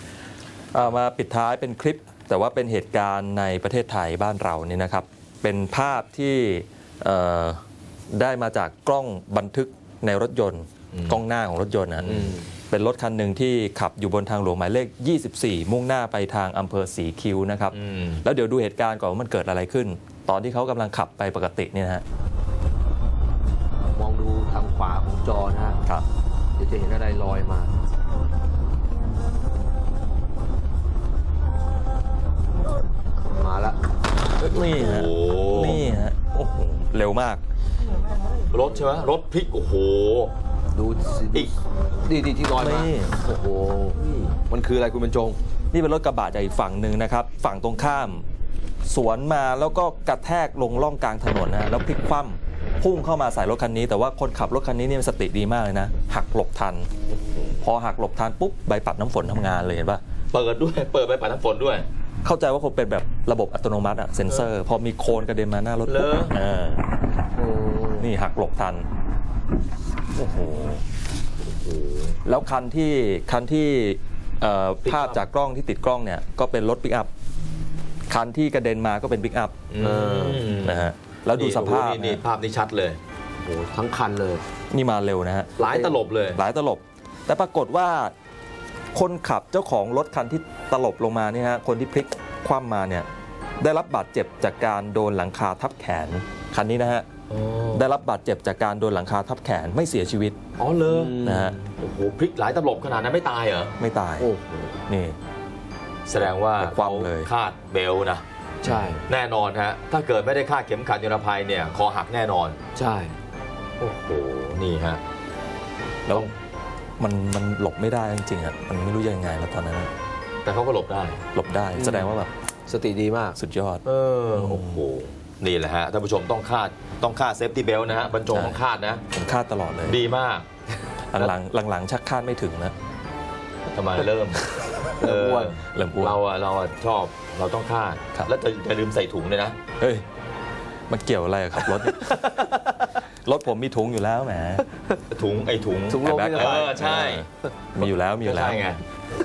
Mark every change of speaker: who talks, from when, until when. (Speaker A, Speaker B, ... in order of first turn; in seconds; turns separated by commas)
Speaker A: 0.7-22.0, Speaker B: 10.9-11.2, Speaker C: 12.1-12.4, Speaker B: 17.7-18.2, Speaker C: 23.9-25.8, Speaker C: 26.6-27.7, Speaker C: 33.3-33.8, Speaker A: 34.4-37.4, Speaker B: 34.7-35.9, Speaker B: 38.5-40.3, Speaker C: 40.7-45.4, Speaker A: 42.6-43.1, Speaker B: 44.0-44.4, Speaker A: 45.7-48.2, Speaker A: 48.9-56.9, Speaker A: 57.6-60.0, Speaker B: 60.3-61.9, Speaker A: 62.2-66.8, Speaker B: 65.8-66.3, Speaker C: 67.3-68.1, Speaker A: 68.0-68.9, Speaker A: 70.1-70.8, Speaker B: 71.4-72.2, Speaker A: 72.2-77.1, Speaker B: 74.8-75.2, Speaker A: 78.1-79.5, Speaker B: 79.7-83.0, Speaker C: 79.8-80.5, Speaker A: 80.6-82.2, Speaker C: 83.4-84.4, Speaker A: 84.7-85.5, Speaker C: 85.6-86.0, Speaker B: 85.6-86.4, Speaker A: 86.3-88.1, Speaker A: 88.9-97.1, Speaker B: 97.3-97.8, Speaker A: 97.7-100.4, Speaker B: 100.6-101.2, Speaker C: 100.8-101.7, Speaker A: 101.2-101.6, Speaker B: 101.8-103.7, Speaker A: 103.8-104.3, Speaker C: 104.2-104.8, Speaker A: 104.9-105.2, Speaker B: 106.1-108.2, Speaker A: 106.5-107.3, Speaker C: 108.6-109.0, Speaker A: 108.7-108.9, Speaker B: 109.0-112.6, Speaker C: 112.7-113.2, Speaker B: 113.8-115.0, Speaker A: 117.0-119.9, Speaker B: 120.4-121.2, Speaker A: 121.3-122.3, Speaker C: 121.8-122.1, Speaker C: 122.7-123.4, Speaker A: 123.4-123.8, Speaker B: 123.8-129.0, Speaker A: 124.3-124.8, Speaker A: 128.3-128.6, Speaker A: 129.1-130.0, Speaker B: 129.8-130.4, Speaker A: 131.1-132.7, Speaker B: 133.7-139.6, Speaker C: 134.8-135.5, Speaker A: 135.7-136.2, Speaker A: 139.8-140.0, Speaker A: 140.9-142.7, Speaker A: 143.2-144.6, Speaker B: 145.1-147.2, Speaker C: 145.9-147.1, Speaker A: 146.0-148.6, Speaker B: 148.2-148.8